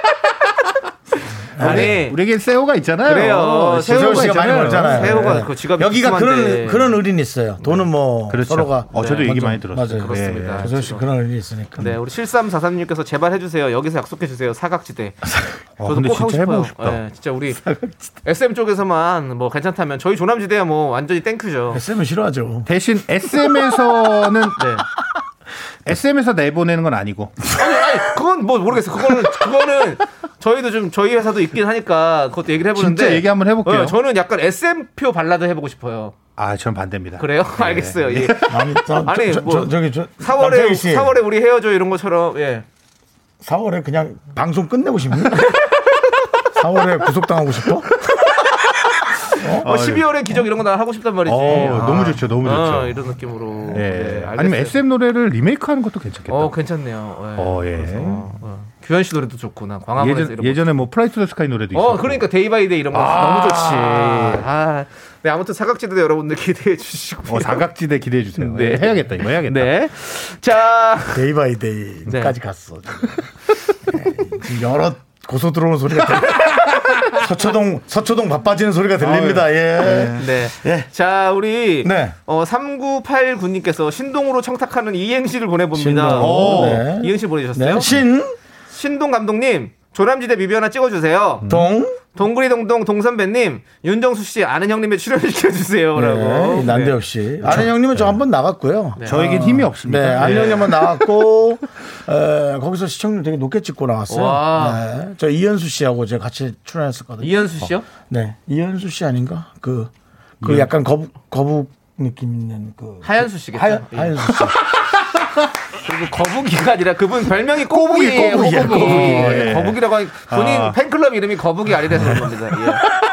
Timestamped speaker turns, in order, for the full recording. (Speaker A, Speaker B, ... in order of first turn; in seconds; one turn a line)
Speaker A: 1.6-2.0
Speaker B: 1.6-2.2
Speaker C: 1.6-5.4
Speaker B: 3.0-7.0
Speaker A: 3.9-12.0
Speaker C: 8.3-10.8
Speaker B: 8.9-11.1
Speaker B: 11.8-15.3
Speaker C: 15.8-17.0
Speaker B: 15.8-17.6
Speaker A: 17.6-17.9
Speaker B: 18.2-21.8
Speaker A: 21.7-22.7
Speaker C: 22.7-24.6
Speaker B: 24.6-24.9
Speaker C: 25.9-27.5
Speaker B: 27.5-36.1
Speaker C: 32.8-34.0
Speaker C: 36.4-38.7
Speaker B: 37.2-42.6
Speaker A: 38.5-41.1
Speaker A: 43.4-45.5
Speaker A: 46.5-47.9
Speaker A: 49.4-49.7
Speaker B: 49.4-54.8
Speaker C: 49.6-50.1
Speaker C: 51.3-53.1
Speaker A: 51.5-52.1
Speaker C: 53.7-56.6
Speaker B: 56.3-60.7
Speaker C: 57.4-58.3
Speaker C: 60.0-62.3
Speaker B: 61.7-67.7
Speaker C: 62.9-64.4
Speaker C: 67.3-69.8
Speaker B: 68.4-71.2
Speaker A: 71.1-73.2
Speaker B: 72.1-72.4
Speaker A: 73.9-80.9
Speaker C: 79.0-80.2
Speaker B: 80.2-87.9
Speaker A: 81.8-82.2
Speaker A: 85.7-88.3
Speaker C: 86.1-86.8
Speaker B: 88.7-91.5
Speaker C: 91.4-91.7
Speaker A: 91.5-92.0
Speaker B: 92.1-97.7
Speaker A: 96.0-107.4
Speaker C: 97.5-98.1
Speaker B: 99.0-99.3
Speaker C: 99.0-101.0
Speaker B: 100.2-100.5
Speaker B: 104.1-104.8
Speaker B: 107.2-107.9
Speaker A: 108.1-109.9
Speaker C: 110.4-110.7
Speaker A: 110.4-114.6
Speaker B: 113.0-114.4
Speaker C: 114.4-114.8
Speaker B: 115.8-122.9
Speaker C: 117.7-120.8
Speaker A: 118.2-119.5